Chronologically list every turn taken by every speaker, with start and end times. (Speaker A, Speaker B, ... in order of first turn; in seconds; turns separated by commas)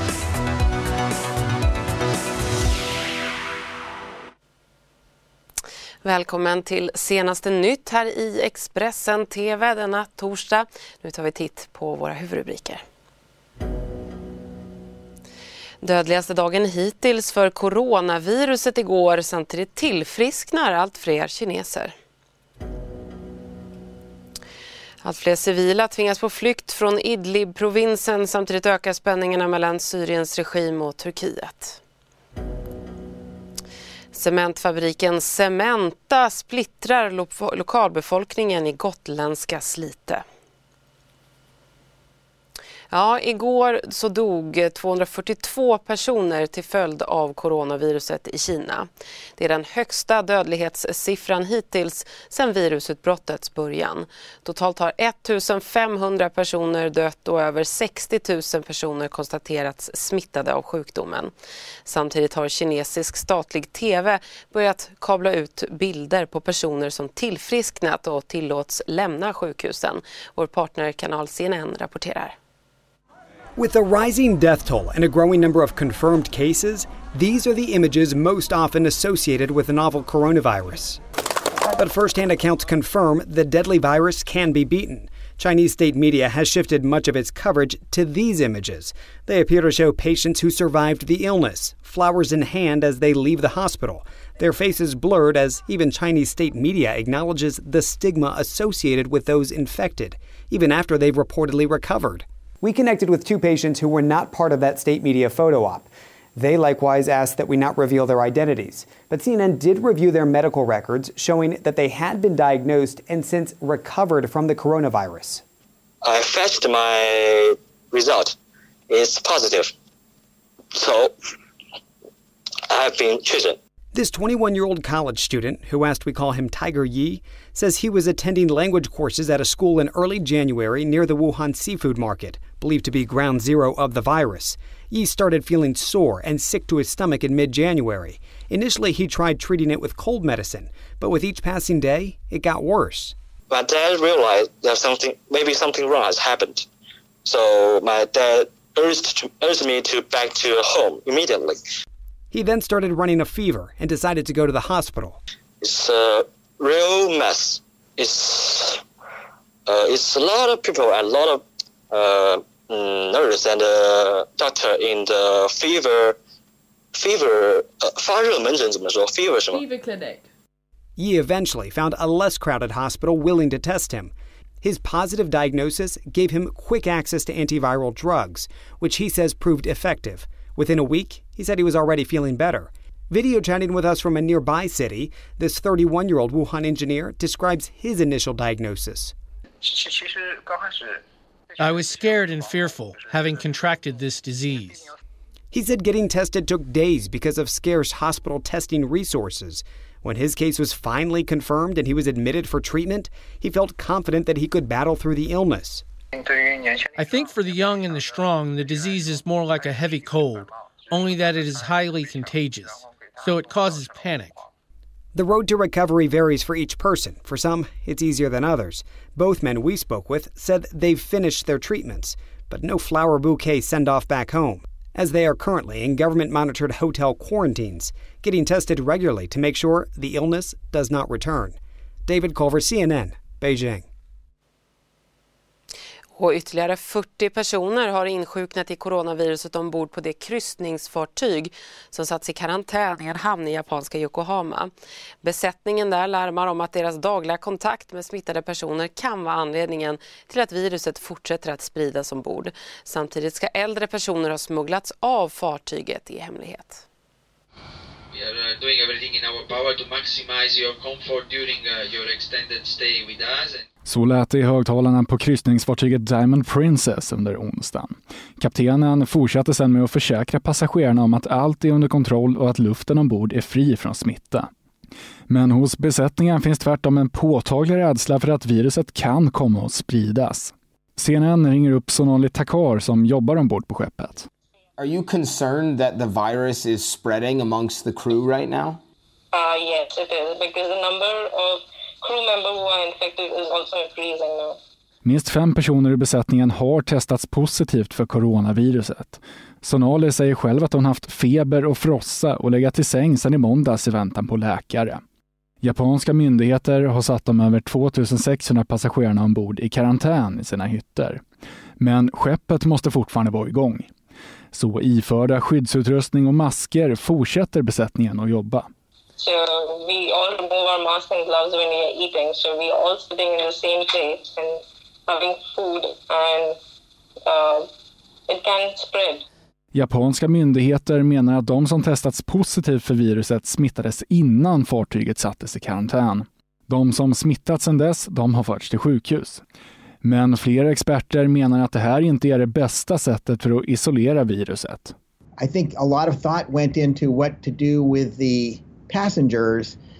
Speaker A: 6.0-12.8, Speaker A: 15.8-21.9, Speaker A: 25.0-31.8, Speaker A: 34.1-40.2, Speaker A: 42.9-61.3, Speaker A: 61.9-72.3, Speaker B: 73.6-81.0, Speaker B: 81.7-115.4, Speaker C: 116.0-118.3, Speaker C: 118.9-119.7, Speaker C: 120.7-121.1, Speaker C: 122.7-123.6, Speaker B: 123.9-143.1, Speaker C: 143.5-146.7, Speaker C: 147.2-151.6, Speaker B: 152.3-155.2, Speaker C: 155.6-158.8, Speaker C: 159.7-166.2, Speaker C: 166.9-169.6, Speaker D: 169.5-170.2, Speaker B: 171.0-189.1, Speaker E: 191.6-194.9, Speaker B: 195.5-205.8, Speaker E: 206.9-214.4, Speaker B: 215.1-233.9, Speaker A: 236.1-244.7, Speaker A: 245.2-256.8, Speaker D: 258.1-263.6, Speaker F: 263.8-274.5, Speaker F: 275.3-284.3, Speaker G: 284.8-288.8, Speaker H: 289.3-294.5, Speaker F: 295.0-305.0, Speaker F: 305.6-311.2, Speaker F: 311.8-313.9, Speaker F: 314.5-318.7, Speaker H: 319.2-324.5, Speaker H: 325.1-326.5, Speaker H: 327.3-327.6, Speaker H: 328.3-329.2, Speaker F: 329.7-339.4, Speaker F: 340.0-344.9, Speaker I: 345.4-349.8